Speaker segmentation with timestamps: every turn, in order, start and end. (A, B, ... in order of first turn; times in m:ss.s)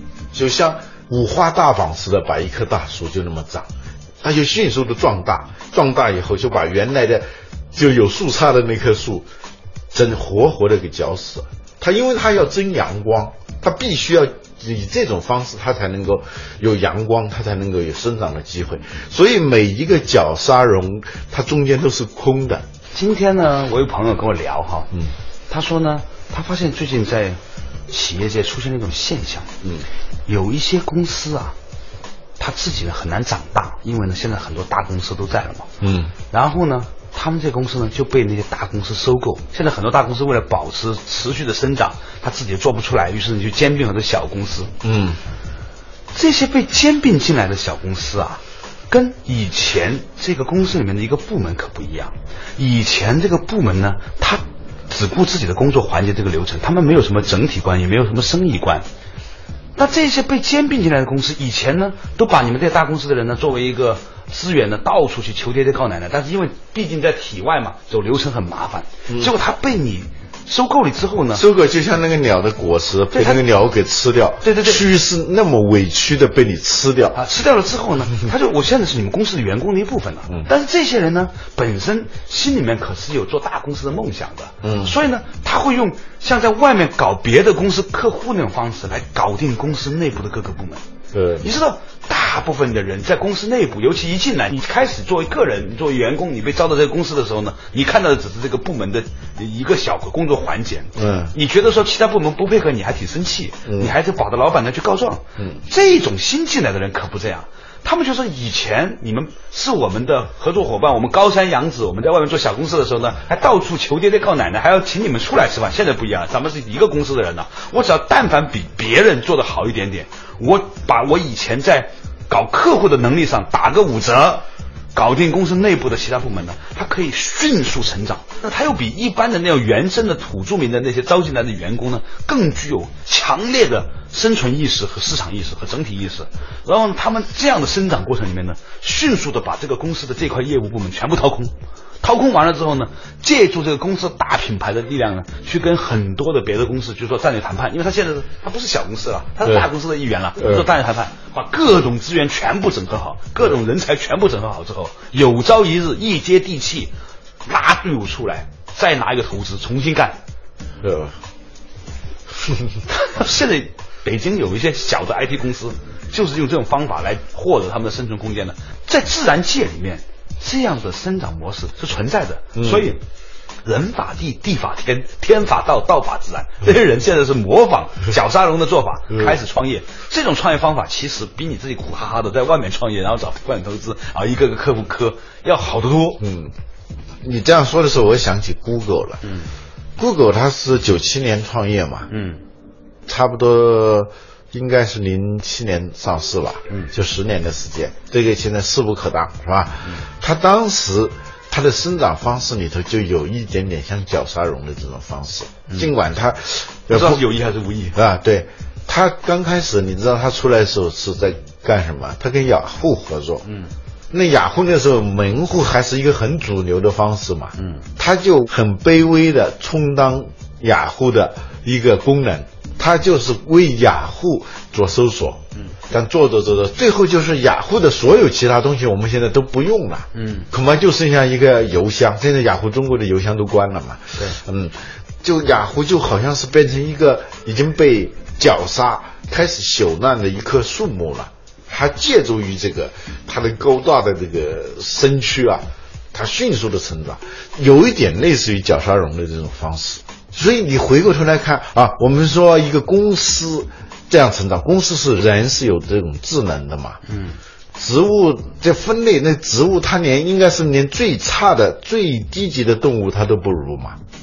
0:00.3-0:03.7 A
0:04.2-0:09.2 A
0:09.9-0:22.6 A
0:22.9-0:24.9 B
0:25.5-0:29.5 B
0:30.3-0:31.6 B
0:32.4-0:35.7 B
0:35.8-0:36.1 A
0:36.3-0:44.7 B
0:44.8-0:45.2 A
0:46.1-0:58.8 B
0:59.8-1:11.4 B
1:11.3-1:17.2 A
1:13.1-1:13.4 B
1:14.4-1:14.8 B
1:17.1-1:30.8 B
1:24.6-1:24.9 A
1:31.1-1:31.4 A
1:31.4-2:04.4 B
1:41.0-1:41.3 A
1:43.6-1:43.9 A
2:04.9-2:36.9 B
2:29.4-2:29.7 A
2:30.4-2:30.6 A
2:37.4-2:40.2 B
2:40.8-2:41.1 A
2:42.4-2:42.7 A
2:42.9-2:53.0 B
2:52.5-2:52.9 A
2:53.6-3:06.2 B
3:06.2-3:06.5 A
3:07.2-3:09.2 A
3:09.2-3:09.5 B
3:10.0-3:12.1 A
3:12.1-3:12.4 B
3:13.0-3:27.2 A
3:26.9-3:28.0 B
3:27.9-3:33.4 A
3:33.4-3:33.7 B
3:34.1-4:17.0 A
3:37.6-3:37.8 B
3:50.1-3:50.5 B
4:17.1-4:17.4 B
4:17.8-4:24.0 A